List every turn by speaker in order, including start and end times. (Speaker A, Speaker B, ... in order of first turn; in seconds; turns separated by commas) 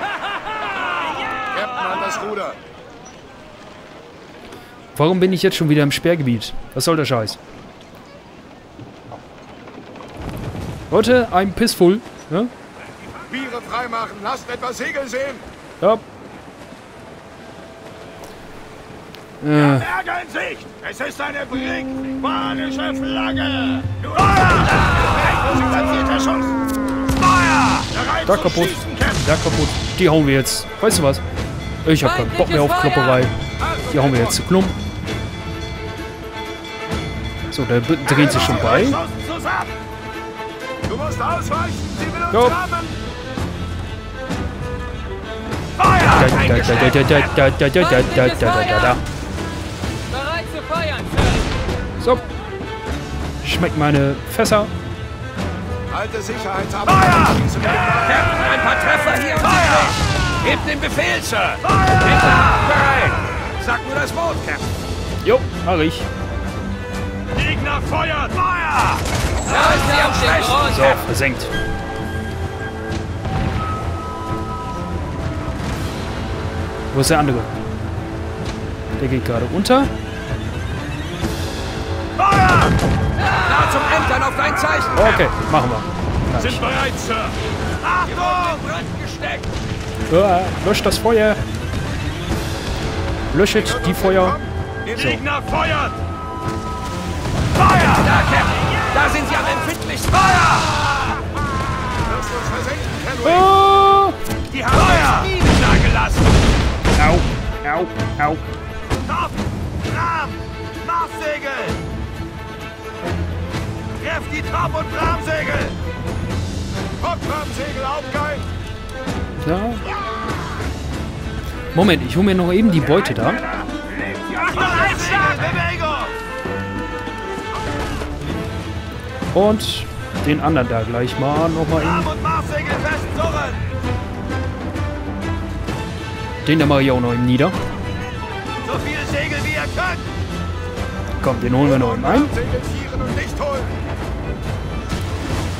Speaker A: 1.6-2.5, Speaker B: 4.9-7.4, Speaker B: 10.9-12.5, Speaker A: 13.2-15.4, Speaker B: 19.4-19.9, Speaker A: 19.6-26.5, Speaker A: 27.2-29.1, Speaker B: 28.2-31.2, Speaker B: 31.8-34.8, Speaker B: 37.5-39.0, Speaker A: 38.8-39.6, Speaker A: 40.9-42.1, Speaker B: 42.3-42.7, Speaker A: 45.8-46.2, Speaker B: 46.0-49.0, Speaker C: 50.3-51.3, Speaker B: 52.0-52.3, Speaker B: 53.4-54.7, Speaker A: 55.9-58.1, Speaker C: 57.6-64.7, Speaker A: 59.5-60.0, Speaker A: 61.7-62.5, Speaker B: 65.2-66.1, Speaker A: 67.4-69.0, Speaker C: 69.5-70.8, Speaker B: 70.6-71.5, Speaker B: 76.9-77.5, Speaker B: 79.0-79.9, Speaker A: 82.2-82.7, Speaker C: 83.4-85.0, Speaker B: 84.9-86.9, Speaker A: 87.0-88.9, Speaker C: 88.1-89.5, Speaker B: 90.1-91.4, Speaker B: 93.3-95.2, Speaker A: 95.0-95.9, Speaker A: 97.6-98.1, Speaker C: 98.0-100.7, Speaker A: 102.1-103.0, Speaker B: 103.1-104.2, Speaker A: 104.5-105.4, Speaker C: 104.6-106.2, Speaker B: 106.9-108.5, Speaker A: 109.0-111.8, Speaker A: 114.0-115.8, Speaker A: 117.0-118.4, Speaker B: 119.4-119.9, Speaker B: 121.7-123.5, Speaker A: 124.1-126.1, Speaker B: 129.3-132.1, Speaker A: 131.8-133.7, Speaker B: 136.4-137.6, Speaker A: 138.6-140.1, Speaker B: 141.2-142.5, Speaker A: 142.7-143.6